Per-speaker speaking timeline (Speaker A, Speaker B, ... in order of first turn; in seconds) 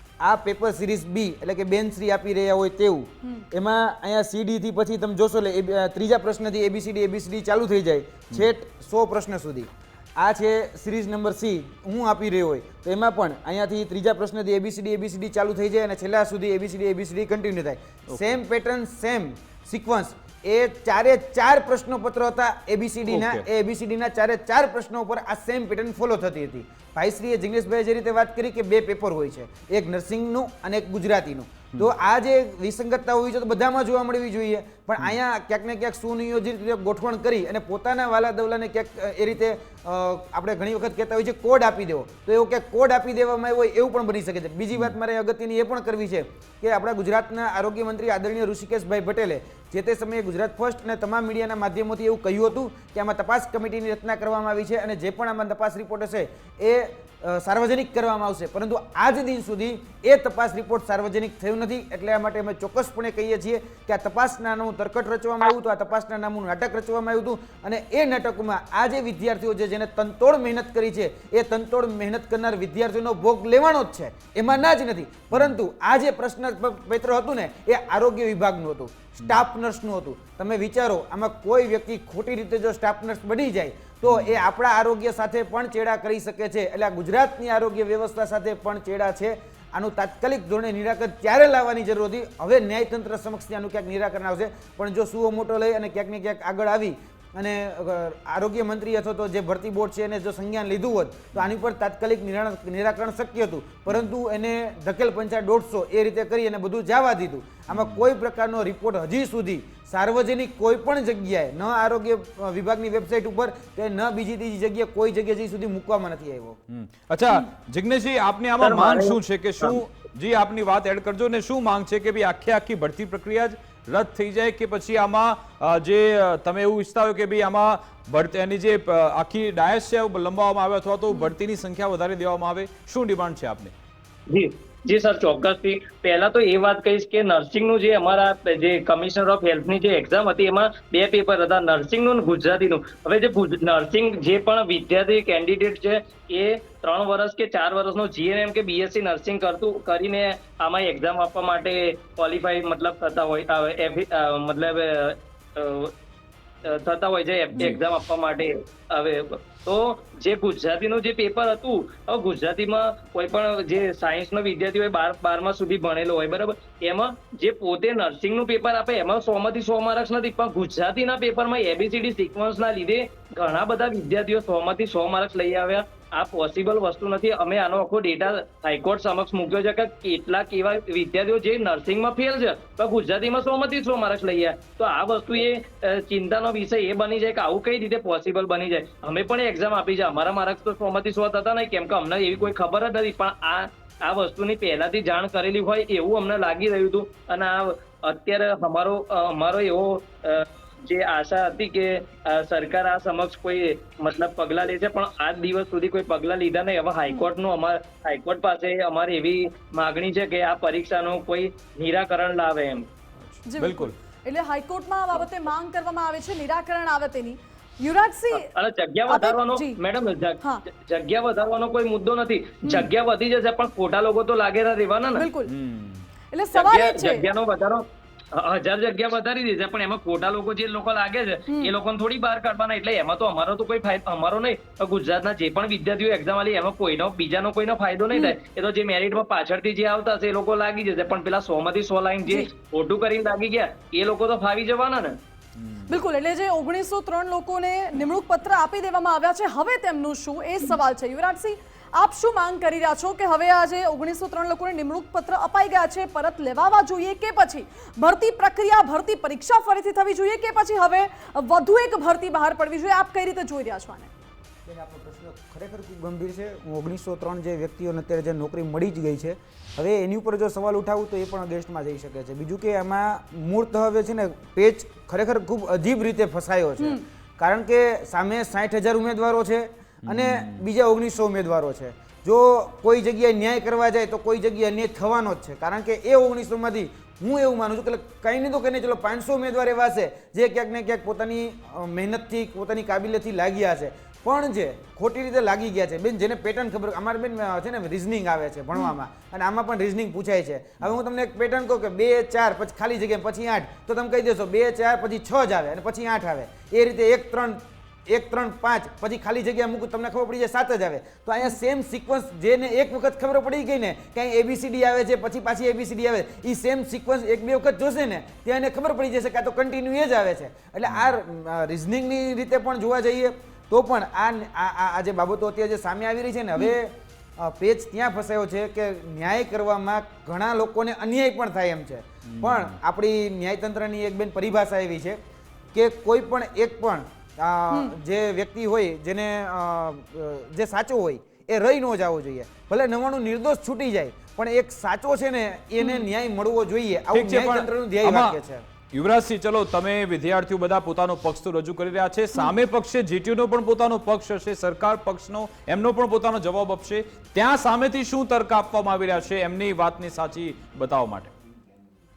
Speaker A: 0.2-116.6, 264.7-335.2, 335.7-348.6
Speaker B: 23.1-23.4, 84.1-84.4, 107.7-108.1, 116.7-133.7, 213.2-213.9, 225.5-226.1, 245.6-245.9, 280.0-280.6, 320.9-321.1, 332.3-332.8, 347.1-348.4, 348.9-361.3
Speaker C: 118.6-119.8, 134.3-155.9, 156.6-212.9, 218.3-225.2, 226.6-227.8, 228.3-245.2
Speaker D: 213.5-218.5, 219.1-219.8, 225.2-225.5, 226.3-227.3, 245.9-264.1, 345.8-346.1